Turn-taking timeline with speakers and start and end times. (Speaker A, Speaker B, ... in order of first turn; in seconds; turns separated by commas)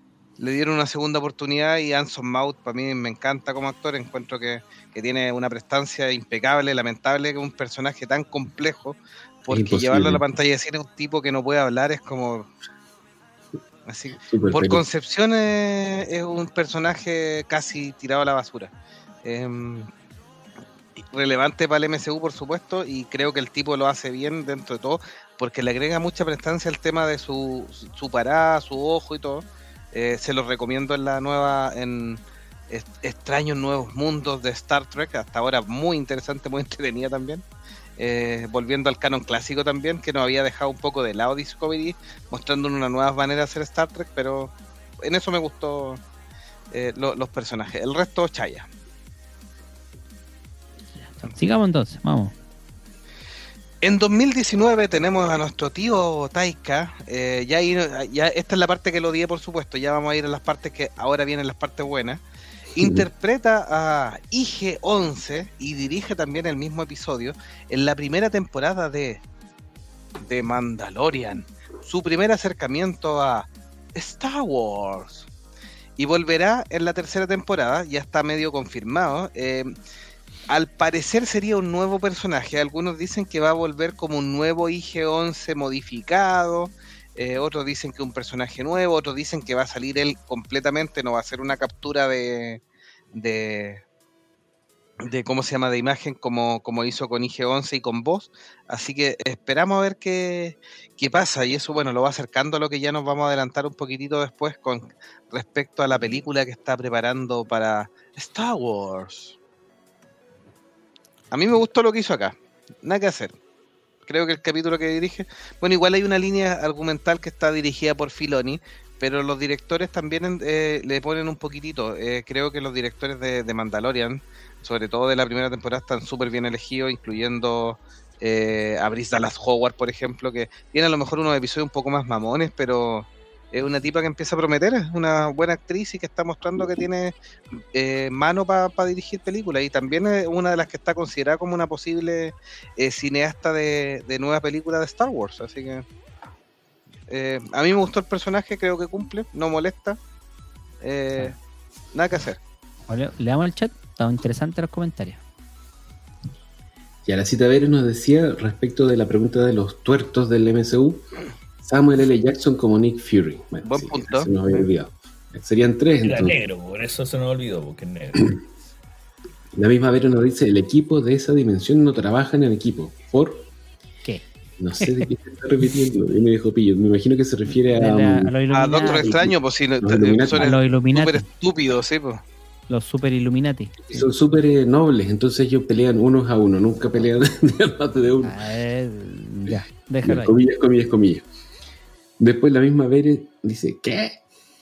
Speaker A: 0.4-12.5, Speaker B: 9.5-10.2, Speaker A: 13.9-18.7, Speaker B: 14.3-14.8, Speaker A: 19.2-19.9, Speaker A: 21.0-37.4, Speaker A: 38.0-46.0, Speaker A: 46.7-48.7, Speaker C: 51.1-52.3, Speaker A: 53.8-62.2, Speaker A: 62.7-69.2, Speaker B: 62.8-63.1, Speaker A: 70.2-75.3, Speaker A: 76.0-79.7, Speaker A: 80.5-92.6, Speaker A: 93.1-93.8, Speaker A: 95.0-109.3, Speaker A: 111.3-113.3, Speaker A: 114.0-137.1, Speaker A: 137.7-145.9, Speaker A: 147.1-150.0, Speaker A: 150.8-151.3, Speaker A: 151.9-152.4, Speaker C: 152.9-155.2, Speaker B: 157.1-161.1, Speaker B: 161.6-166.4, Speaker A: 163.6-164.3, Speaker D: 166.0-168.4, Speaker B: 169.6-173.5, Speaker B: 174.6-180.5, Speaker C: 174.8-175.1, Speaker C: 177.8-179.2, Speaker A: 178.5-182.2, Speaker C: 180.4-181.2, Speaker C: 182.7-184.1, Speaker B: 183.8-188.4, Speaker C: 188.2-190.4, Speaker B: 190.0-191.2, Speaker B: 192.2-194.2